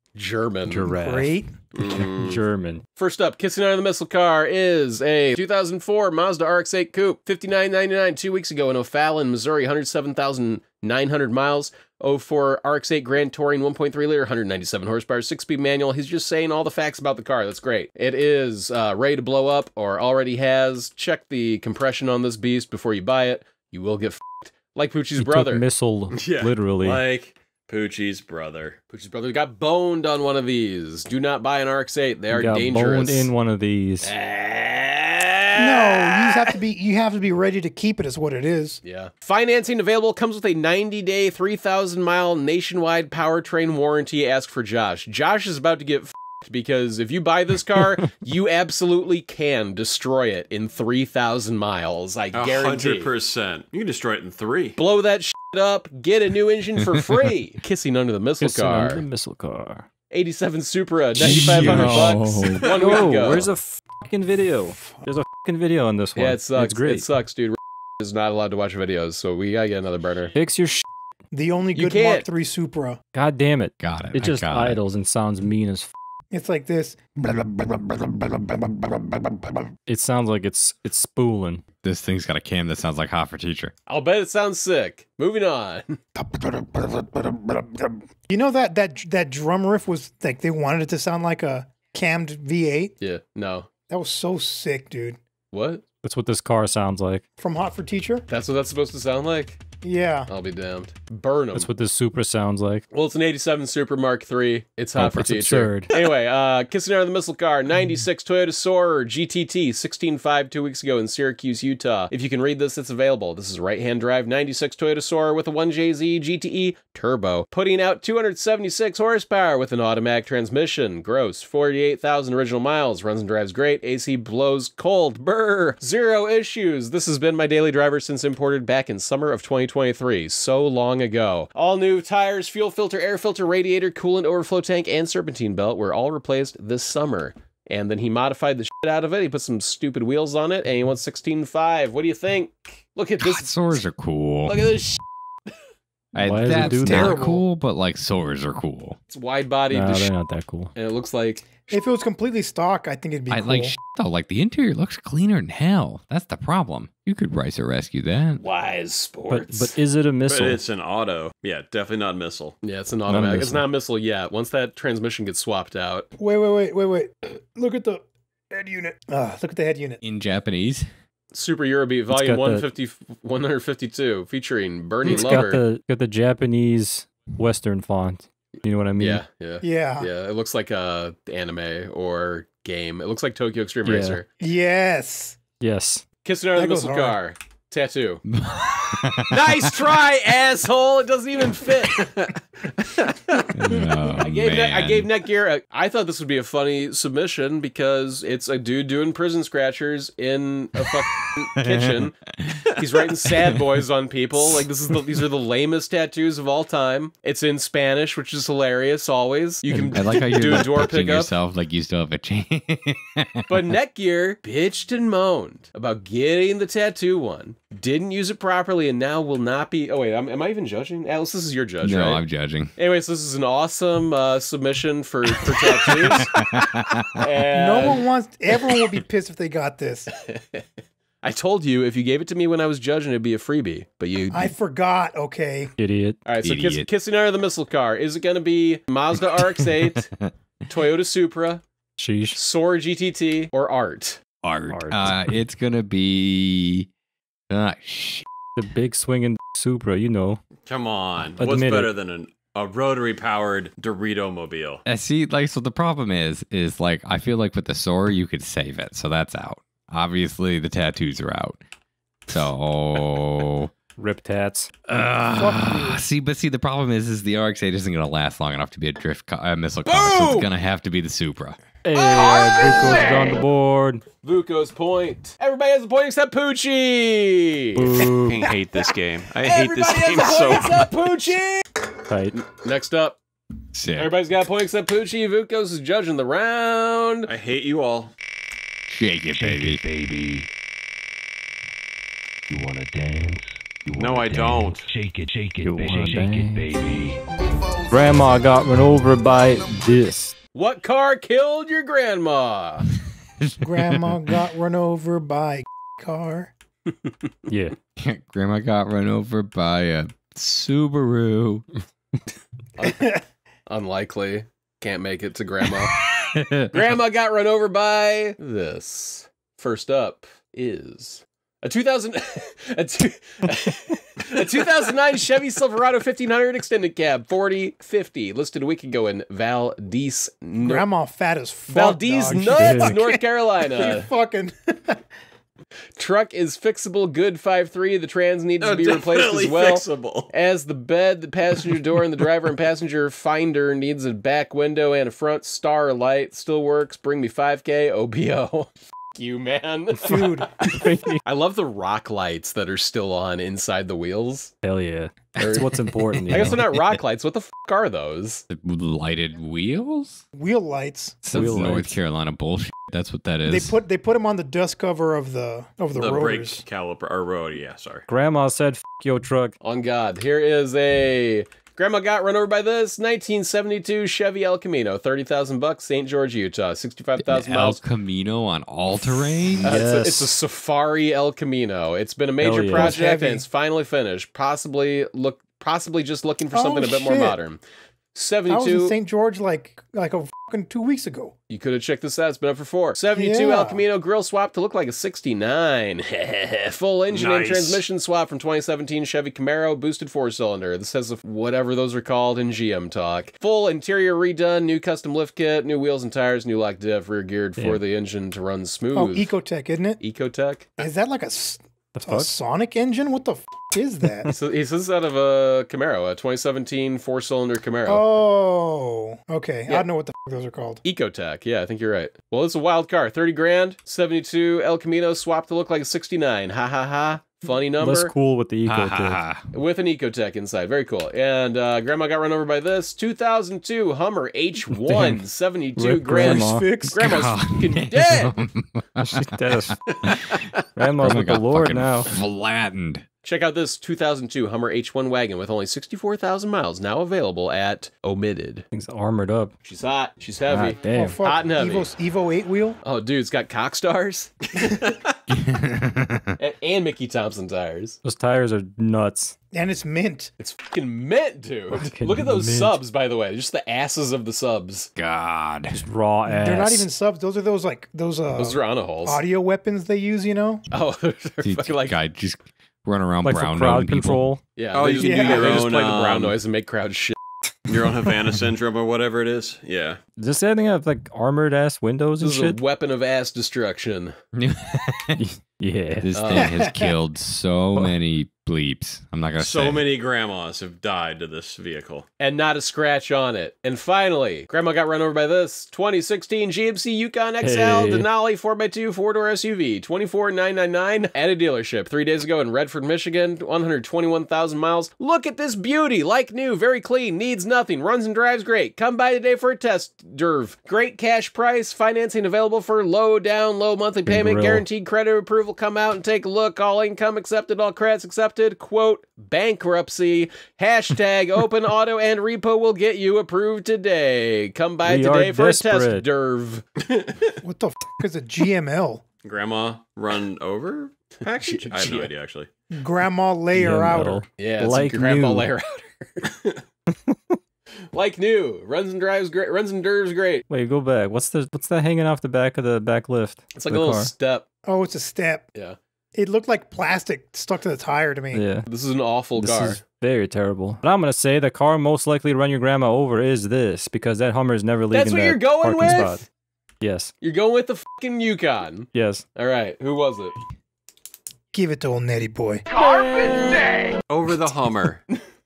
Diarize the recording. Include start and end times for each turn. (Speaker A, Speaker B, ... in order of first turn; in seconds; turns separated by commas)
Speaker A: 0.1-0.9, Speaker B: 0.7-1.4, Speaker C: 0.9-1.5, Speaker D: 1.7-2.4, Speaker B: 2.0-2.8, Speaker A: 3.0-25.6, Speaker B: 25.2-27.0, Speaker D: 26.1-28.8, Speaker A: 28.9-33.3, Speaker B: 32.3-34.1, Speaker A: 34.0-36.5, Speaker C: 35.6-38.8, Speaker A: 38.8-53.1, Speaker D: 52.3-54.8, Speaker A: 54.8-59.0, Speaker B: 58.4-59.9, Speaker A: 60.1-63.5, Speaker E: 61.1-62.7, Speaker B: 61.4-62.2, Speaker D: 62.4-63.1, Speaker B: 62.7-67.1, Speaker A: 66.2-70.3, Speaker B: 70.3-70.8, Speaker C: 71.3-73.0, Speaker A: 71.7-72.3, Speaker B: 73.1-75.9, Speaker E: 73.8-74.8, Speaker C: 76.3-79.7, Speaker B: 79.9-81.6, Speaker E: 81.8-83.7, Speaker A: 83.9-86.0, Speaker C: 86.2-92.9, Speaker A: 93.0-93.7, Speaker C: 93.9-95.2, Speaker A: 95.5-95.8, Speaker B: 96.0-97.2, Speaker C: 97.4-98.3, Speaker A: 98.3-99.6, Speaker C: 99.8-100.3, Speaker A: 100.3-101.7, Speaker B: 101.5-102.8, Speaker A: 102.9-143.8, Speaker B: 105.0-105.9, Speaker E: 143.2-144.7, Speaker A: 144.5-145.0, Speaker E: 146.1-149.0, Speaker B: 146.2-147.3, Speaker C: 146.6-147.4, Speaker A: 149.1-150.1, Speaker B: 149.7-150.7, Speaker A: 150.8-151.4, Speaker C: 151.7-153.8, Speaker E: 153.3-158.4, Speaker A: 158.4-159.8, Speaker B: 159.3-160.6, Speaker D: 160.2-162.6, Speaker A: 162.6-166.1, Speaker B: 163.1-163.6, Speaker C: 166.2-170.0, Speaker E: 170.0-170.9, Speaker A: 171.3-175.6, Speaker B: 172.1-172.7, Speaker B: 175.0-179.2, Speaker A: 179.0-184.3, Speaker C: 179.6-180.1, Speaker B: 183.8-184.2, Speaker C: 184.4-185.4, Speaker B: 185.6-186.1, Speaker A: 186.2-188.2, Speaker C: 186.6-187.2, Speaker E: 188.3-189.7, Speaker A: 189.3-192.3, Speaker A: 193.3-202.2, Speaker E: 193.5-195.1, Speaker E: 201.6-202.6, Speaker A: 202.7-211.3, Speaker B: 209.7-210.4, Speaker E: 209.9-213.5, Speaker A: 213.5-222.2, Speaker E: 221.8-222.7, Speaker A: 222.8-226.3, Speaker E: 225.4-227.2, Speaker A: 227.2-228.1, Speaker C: 227.5-230.1, Speaker A: 230.2-230.6, Speaker A: 231.2-234.5, Speaker C: 234.3-235.7, Speaker B: 235.8-236.2, Speaker A: 236.3-240.1, Speaker E: 236.4-236.9, Speaker E: 239.6-240.3, Speaker A: 240.7-241.6, Speaker B: 242.0-242.4, Speaker A: 242.3-244.2, Speaker E: 244.4-246.9, Speaker B: 244.7-245.2, Speaker E: 247.5-248.3, Speaker B: 248.6-250.4, Speaker D: 250.6-254.8, Speaker B: 251.4-251.9, Speaker E: 254.8-261.6, Speaker E: 262.3-263.7, Speaker B: 264.0-264.7, Speaker E: 264.9-271.6, Speaker C: 265.3-266.0, Speaker A: 269.9-270.5, Speaker B: 271.9-274.0, Speaker A: 272.6-273.1, Speaker A: 274.2-278.0, Speaker B: 277.8-278.5, Speaker D: 278.0-280.9, Speaker A: 279.4-281.8, Speaker B: 282.1-282.4, Speaker A: 282.4-283.2, Speaker E: 283.7-284.1, Speaker A: 283.9-287.3, Speaker D: 287.3-288.1, Speaker E: 288.9-289.8, Speaker F: 289.4-290.5, Speaker F: 292.5-297.2, Speaker D: 294.0-294.9, Speaker B: 295.6-296.7, Speaker B: 297.9-300.4, Speaker A: 300.6-302.9, Speaker E: 303.4-304.3, Speaker C: 303.6-306.5, Speaker B: 307.5-307.8, Speaker E: 308.0-311.6, Speaker A: 312.8-313.1, Speaker C: 312.9-313.2, Speaker A: 313.7-316.0, Speaker E: 315.8-316.8, Speaker A: 316.7-330.9, Speaker C: 330.6-335.0, Speaker A: 331.7-334.1, Speaker B: 332.3-333.0, Speaker A: 336.0-354.6, Speaker D: 338.6-340.3, Speaker C: 350.0-350.5, Speaker B: 350.1-351.2, Speaker B: 354.6-356.6, Speaker E: 355.4-357.0, Speaker A: 355.4-358.4, Speaker E: 358.5-360.2, Speaker C: 360.3-361.2, Speaker E: 361.2-363.8, Speaker B: 361.3-361.9, Speaker C: 363.4-366.6, Speaker D: 365.9-368.1, Speaker B: 368.1-369.5, Speaker A: 369.6-377.8, Speaker E: 377.2-379.8, Speaker B: 379.6-380.3, Speaker A: 379.6-387.6, Speaker B: 382.4-383.0, Speaker C: 382.7-383.4, Speaker C: 386.5-387.4, Speaker A: 388.1-388.9, Speaker C: 388.5-391.3, Speaker A: 391.5-409.3, Speaker C: 393.1-393.8, Speaker D: 397.1-397.8, Speaker C: 408.9-410.0, Speaker A: 410.0-410.7, Speaker C: 410.8-414.3, Speaker B: 411.9-412.3, Speaker A: 414.3-418.1, Speaker C: 417.9-420.8, Speaker A: 420.8-428.1, Speaker B: 427.8-429.2, Speaker E: 428.6-429.4, Speaker A: 429.5-438.4, Speaker B: 434.9-435.2, Speaker B: 435.8-436.8, Speaker C: 436.1-437.1, Speaker E: 436.9-443.1, Speaker B: 439.0-439.8, Speaker B: 440.8-442.1, Speaker A: 443.2-448.6, Speaker B: 448.7-449.5, Speaker A: 449.6-451.9, Speaker B: 450.5-451.2, Speaker C: 450.9-452.8, Speaker A: 452.8-454.9, Speaker E: 455.3-456.4, Speaker A: 456.4-458.0, Speaker B: 458.0-459.4, Speaker C: 459.5-460.3, Speaker A: 460.4-464.9, Speaker B: 461.8-462.8, Speaker E: 464.9-465.8, Speaker B: 465.7-466.9, Speaker C: 466.3-470.6, Speaker A: 468.4-469.2, Speaker A: 470.7-472.0, Speaker E: 471.4-474.2, Speaker B: 473.2-474.4, Speaker A: 474.6-477.1, Speaker D: 474.7-476.4, Speaker C: 474.9-475.6, Speaker D: 477.6-480.0, Speaker B: 480.2-482.6, Speaker A: 482.2-484.1, Speaker E: 484.4-485.2, Speaker B: 485.2-486.3, Speaker E: 486.0-489.9, Speaker A: 486.1-486.6, Speaker C: 486.4-486.9, Speaker D: 489.4-492.1, Speaker A: 492.2-526.7, Speaker B: 497.4-498.1, Speaker B: 514.1-514.6, Speaker B: 524.9-526.0, Speaker C: 527.4-529.0, Speaker D: 529.2-532.5, Speaker A: 531.2-532.1, Speaker C: 532.7-534.2, Speaker B: 533.5-535.5, Speaker A: 534.4-536.6, Speaker B: 536.9-537.4, Speaker A: 537.9-540.4, Speaker B: 540.5-544.1, Speaker A: 543.5-544.4, Speaker C: 544.6-545.5, Speaker C: 546.1-548.4, Speaker B: 548.3-548.6, Speaker A: 548.7-549.8, Speaker B: 549.4-556.2, Speaker A: 554.9-556.2, Speaker B: 556.8-557.1, Speaker A: 557.2-560.4, Speaker B: 558.9-559.2, Speaker C: 561.5-562.6, Speaker A: 562.7-564.0, Speaker D: 564.1-565.0